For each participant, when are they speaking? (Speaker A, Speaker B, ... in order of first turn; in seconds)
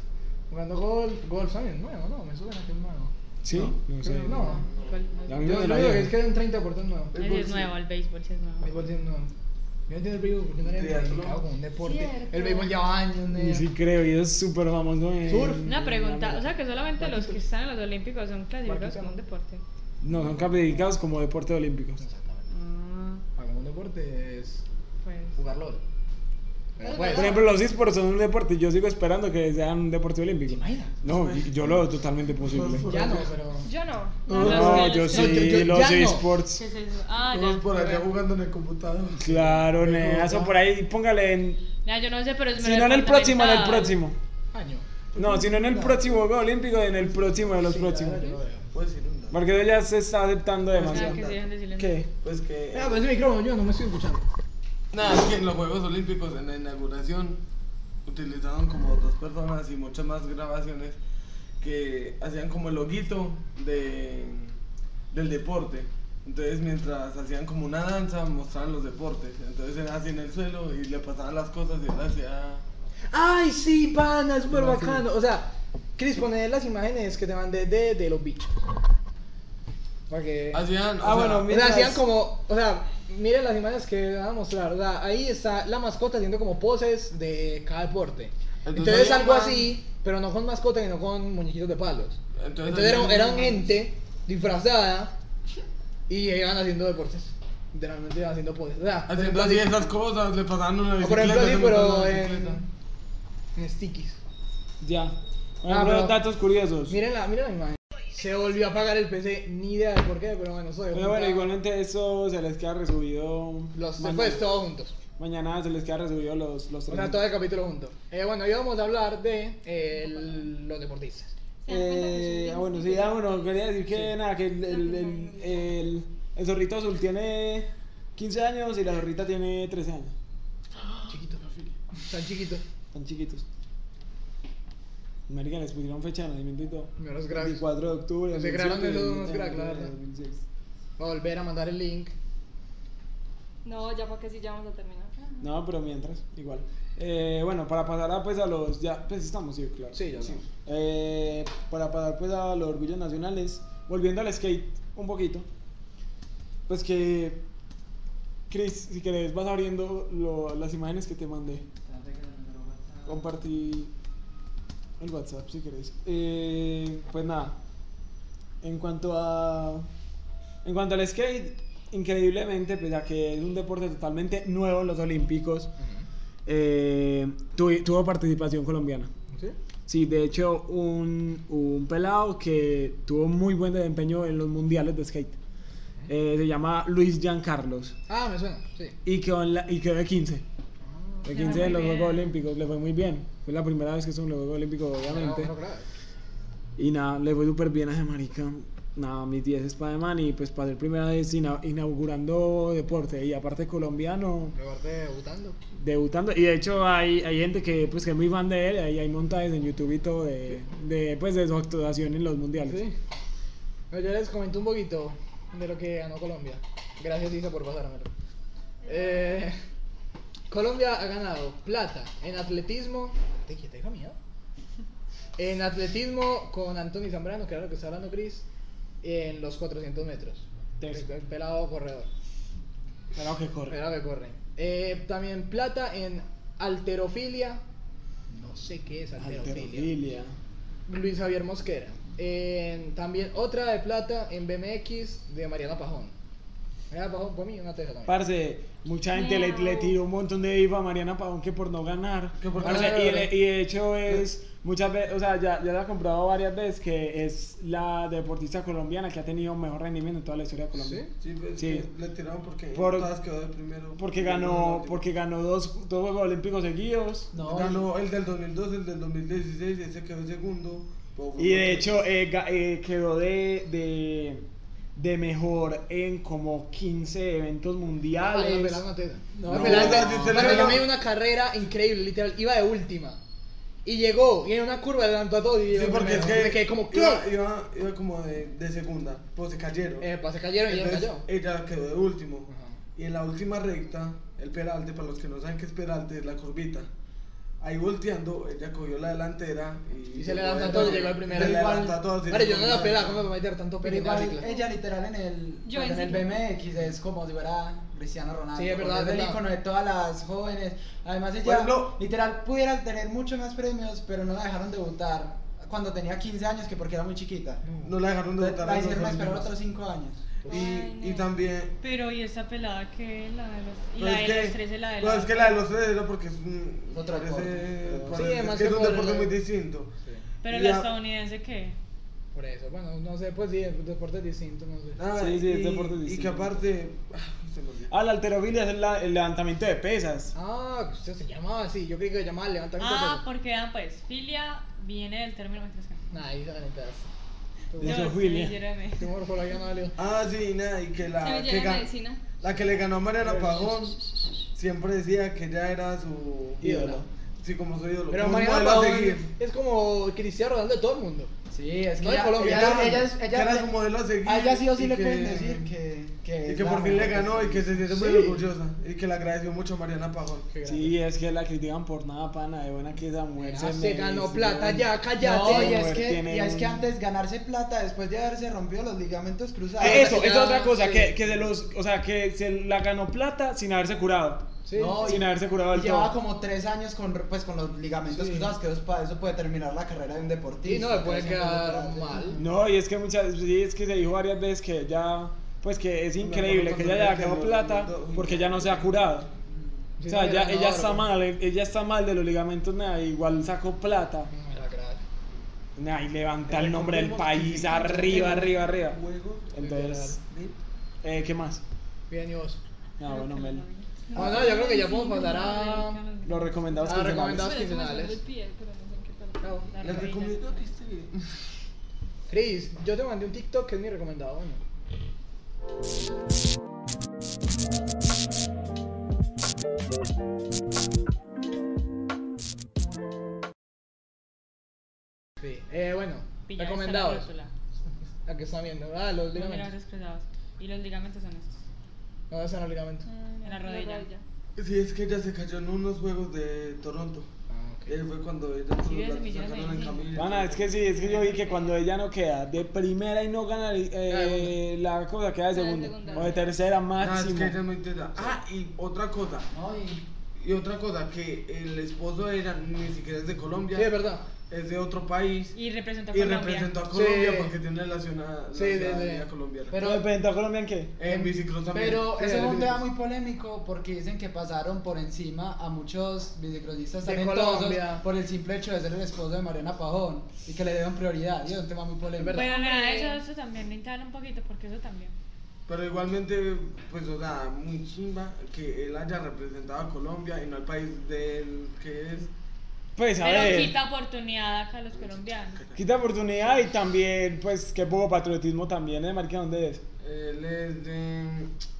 Speaker A: 0.5-3.1, 4.2-4.6, 5.4-7.1, 8.6-9.3, 9.9-13.7, 15.3-15.6, 16.9-17.4, 18.6-19.1, 22.0-22.4, 23.4-24.6, 25.4-25.8, 26.8-27.4, 30.5-31.0, 32.8-33.7, 34.7-36.2, 39.3-40.5, 44.5-44.9, 45.4-46.0, 47.1-48.7, 52.7-54.2, 73.1-78.6, 80.1-80.7, 81.4-95.1, 96.1-99.9, 101.0-102.6, 103.5-104.2, 105.7-106.2, 106.9-111.5, 113.7-115.0, 116.9-121.3, 131.1-131.4, 132.0-132.6, 137.0-137.6, 138.3-139.9, 141.0-142.1, 149.9-150.4, 175.8-176.1, 179.3-179.6, 188.1-188.9, 190.8-191.7, 195.1-195.9, 204.5-205.6, 212.6-212.9, 213.9-218.1, 218.8-219.6, 220.5-224.2, 225.4-228.4, 229.0-232.1, 233.7-237.6, 238.3-239.9, 240.9-246.1, 246.9-248.2, 252.6-253.3, 260.8-261.1, 278.2-283.2, 283.8-287.3, 290.0-291.2, 292.5-292.8, 300.1-304.5, 308.5-309.4, 317.6-317.9, 328.1-329.4, 332.3-335.0, 340.3-343.2, 346.1-347.1, 347.7-348.0, 349.0-349.9, 353.2-353.7, 356.6-357.0, 358.1-361.3, 362.0-363.1, 367.9-368.4, 370.5-370.9, 373.4-375.9, 379.8-381.1, 384.6-385.2, 388.1-388.6, 390.6-392.4, 400.0-401.1, 404.3-405.0, 409.6-410.2, 412.1-412.6, 414.1-416.0, 416.9-418.2, 419.4-419.7, 422.3-424.6, 435.4-437.3, 438.2-439.7, 442.3-443.1, 447.5-447.9, 454.1-454.6, 463.7-464.3, 466.9-467.6, 468.5-469.3, 472.1-472.8, 477.0-478.0, 482.1-482.6
Speaker B: 3.4-4.3, 5.3-6.2, 13.3-16.5, 20.0-22.0, 27.1-32.9, 34.4-36.6, 39.2-41.6, 42.6-44.2, 45.1-48.4, 49.3-51.2, 51.8-52.1, 74.5-75.0, 81.0-82.0, 104.8-107.0, 110.9-114.6, 115.2-117.2, 121.7-130.1, 132.9-133.4, 135.3-140.4, 145.4-155.5, 156.7-157.4, 158.5-161.6, 163.1-163.9, 165.0-167.5, 168.6-169.9, 170.6-175.7, 176.4-179.1, 179.9-185.4, 186.1-187.9, 189.0-190.4, 191.2-195.5, 196.8-204.6, 205.7-212.8, 233.1-233.8, 239.2-240.3, 248.1-261.0, 261.6-261.9, 262.7-263.1, 264.0-267.3, 271.4-278.8, 279.5-280.1, 301.4-301.8, 335.1-336.6, 337.9-340.3, 347.8-348.6, 356.6-357.1, 370.6-376.8, 379.8-384.5, 385.0-386.1, 392.4-399.3, 400.1-404.3, 405.8-409.0, 409.5-410.2, 411.0-411.6, 413.0-413.6, 416.2-417.6, 450.1-457.5, 469.8-470.9, 492.9-493.8, 495.8-499.8
Speaker C: 4.3-5.5, 7.2-8.7, 15.6-19.6, 22.5-23.2, 25.0-25.4, 34.4-35.4, 36.5-38.1, 41.8-44.0, 50.8-52.0, 191.3-192.3, 321.8-325.6, 330.4-331.8, 342.8-346.0, 347.8-349.1, 413.0-417.1, 419.7-420.6, 436.5-437.5, 439.3-441.6, 443.4-444.1, 448.8-450.2, 450.8-451.8, 465.5-466.8, 482.3-485.1, 493.2-495.6
Speaker D: 4.3-5.0, 7.1-7.7, 10.6-11.4, 31.1-31.6, 32.4-33.3, 34.3-34.9, 37.3-39.6, 48.7-49.4, 50.7-51.4, 52.2-53.0, 54.9-57.4, 58.0-61.0, 61.6-64.6, 65.1-72.6, 80.5-81.5, 88.6-89.7, 92.4-93.7, 99.1-102.6, 130.8-131.7, 252.4-253.2, 261.2-265.0, 267.4-272.0, 279.4-280.9, 285.7-290.1, 290.7-296.9, 297.6-303.2, 311.4-312.0, 317.8-319.5, 320.4-321.7, 324.0-329.9, 330.5-330.9, 335.0-337.9, 350.0-354.0, 354.5-356.7, 357.4-359.3, 362.4-365.6, 366.4-370.5, 396.2-399.6, 406.5-409.6, 410.2-410.6, 419.8-421.3, 444.6-447.3, 447.9-450.7, 457.0-459.5, 460.4-463.9, 464.5-465.6, 466.1-469.9, 471.0-472.6, 485.6-492.3, 495.0-495.8, 500.0-501.5
Speaker E: 11.8-12.8, 26.8-27.6, 33.6-35.1, 121.6-123.7, 124.7-125.6, 143.6-145.4, 218.9-219.4, 249.1-250.0, 305.6-306.4, 320.5-321.3, 351.2-352.2, 414.1-414.7, 417.3-419.6, 443.1-444.2, 455.5-456.4, 482.4-483.2
Speaker F: 161.9-163.0, 267.3-267.9, 279.5-280.0, 300.7-301.7, 303.8-317.6, 318.4-320.2, 326.9-328.1, 361.5-363.7, 364.2-367.8, 375.2-380.3, 384.7-392.4, 459.5-460.0, 469.7-470.1, 471.0-482.4